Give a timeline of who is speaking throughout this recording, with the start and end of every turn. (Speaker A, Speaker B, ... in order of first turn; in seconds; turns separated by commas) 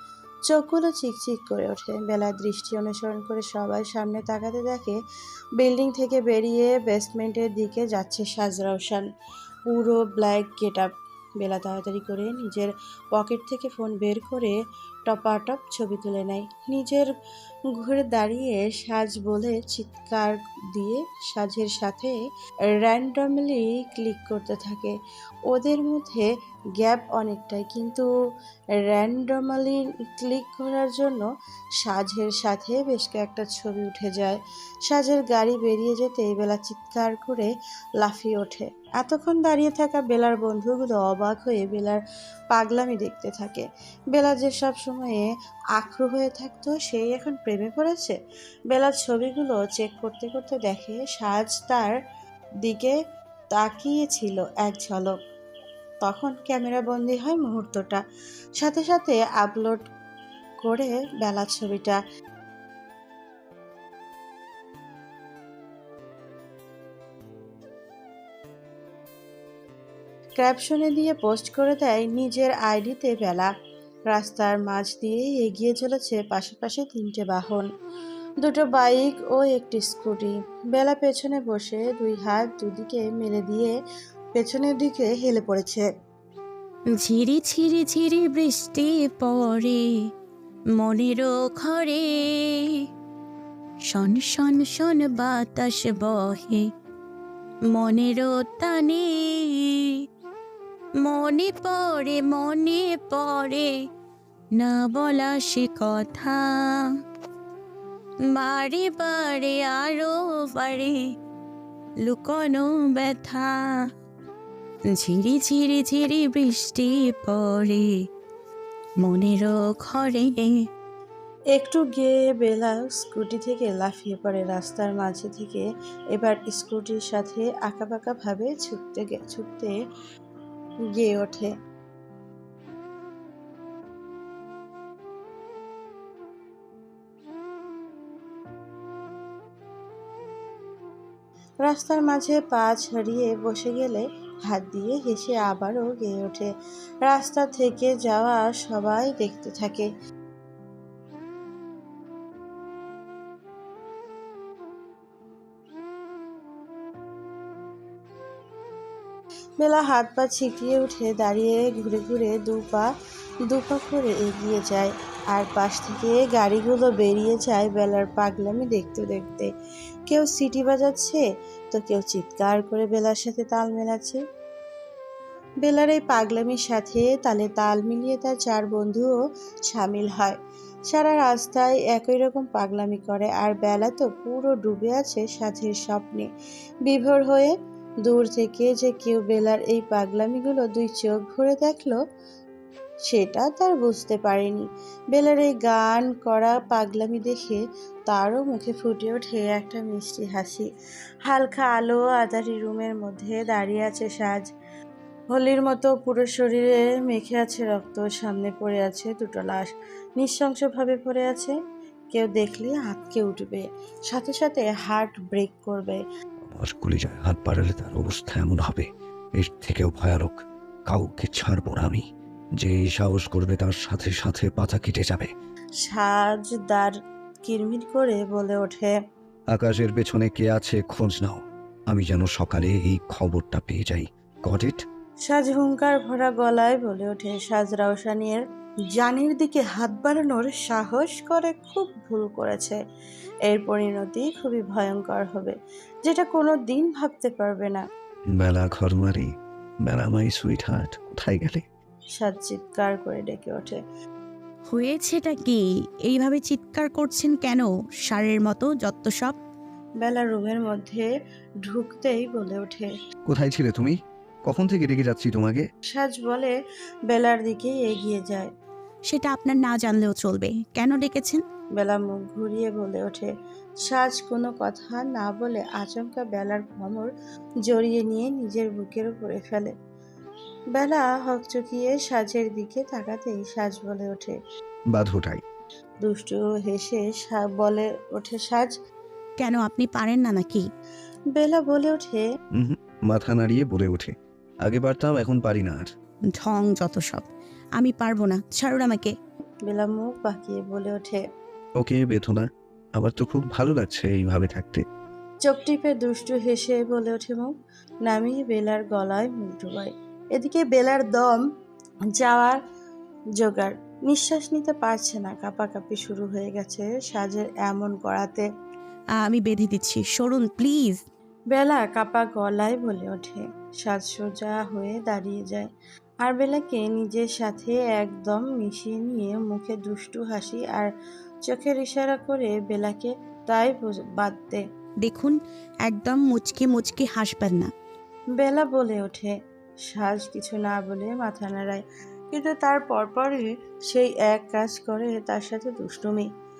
Speaker A: 0.5-5.0, Speaker A: 5.6-9.0, Speaker A: 9.7-10.9, Speaker A: 11.4-17.1, Speaker A: 17.8-22.1, Speaker A: 22.8-24.9, Speaker A: 25.5-28.1, Speaker A: 28.8-31.3, Speaker A: 31.8-37.5, Speaker A: 38.0-42.0, Speaker A: 42.5-48.1, Speaker A: 48.7-51.9, Speaker A: 52.6-53.0, Speaker A: 53.5-55.1, Speaker A: 56.0-58.0, Speaker A: 58.6-59.8, Speaker A: 60.6-62.0, Speaker A: 70.4-73.5, Speaker A: 74.1-77.7, Speaker A: 78.4-83.7, Speaker A: 84.3-85.9, Speaker B: 86.9-89.9, Speaker B: 90.8-92.8, Speaker B: 93.9-96.7, Speaker B: 97.7-100.0, Speaker B: 101.0-103.8, Speaker B: 104.5-106.9, Speaker B: 108.3-111.0, Speaker B: 112.0-113.7, Speaker B: 114.9-117.9, Speaker B: 119.0-120.7, Speaker A: 121.5-129.7, Speaker A: 130.9-131.5, Speaker A: 141.6-146.5, Speaker A: 147.0-149.9, Speaker A: 159.6-162.9, Speaker A: 163.5-169.5, Speaker A: 170.1-174.2, Speaker A: 175.6-180.3, Speaker A: 180.9-186.3, Speaker A: 186.8-187.5, Speaker A: 188.0-192.0, Speaker A: 193.1-200.7, Speaker A: 201.2-204.4, Speaker A: 205.3-211.5, Speaker A: 212.1-216.0, Speaker C: 216.5-218.9, Speaker C: 219.4-222.0, Speaker C: 222.6-225.3, Speaker A: 225.8-228.9, Speaker C: 229.5-234.8, Speaker A: 235.3-238.4, Speaker A: 239.0-242.8, Speaker A: 243.5-245.5, Speaker A: 246.1-247.8, Speaker C: 248.4-249.3, Speaker C: 249.8-251.6, Speaker A: 252.2-253.8, Speaker B: 254.7-259.4, Speaker A: 260.0-261.1, Speaker A: 261.6-262.9, Speaker C: 263.3-263.9, Speaker C: 264.5-265.6, Speaker A: 265.9-266.5, Speaker A: 267.1-268.5, Speaker B: 269.1-271.4, Speaker A: 271.8-273.3, Speaker A: 273.8-277.1, Speaker A: 277.7-279.7, Speaker A: 280.7-284.4, Speaker C: 284.9-285.4, Speaker A: 286.0-288.7, Speaker B: 289.4-290.6, Speaker A: 291.3-292.2, Speaker C: 292.6-294.1, Speaker C: 294.6-295.9, Speaker B: 296.3-299.1, Speaker A: 299.7-301.2, Speaker C: 301.8-304.8, Speaker A: 305.4-307.5, Speaker A: 308.1-311.4, Speaker A: 312.2-312.6, Speaker A: 313.4-318.4, Speaker B: 319.2-321.0, Speaker A: 321.5-325.7, Speaker A: 326.2-330.9, Speaker A: 331.4-334.6, Speaker B: 335.0-337.7, Speaker A: 338.4-339.3, Speaker A: 339.8-346.3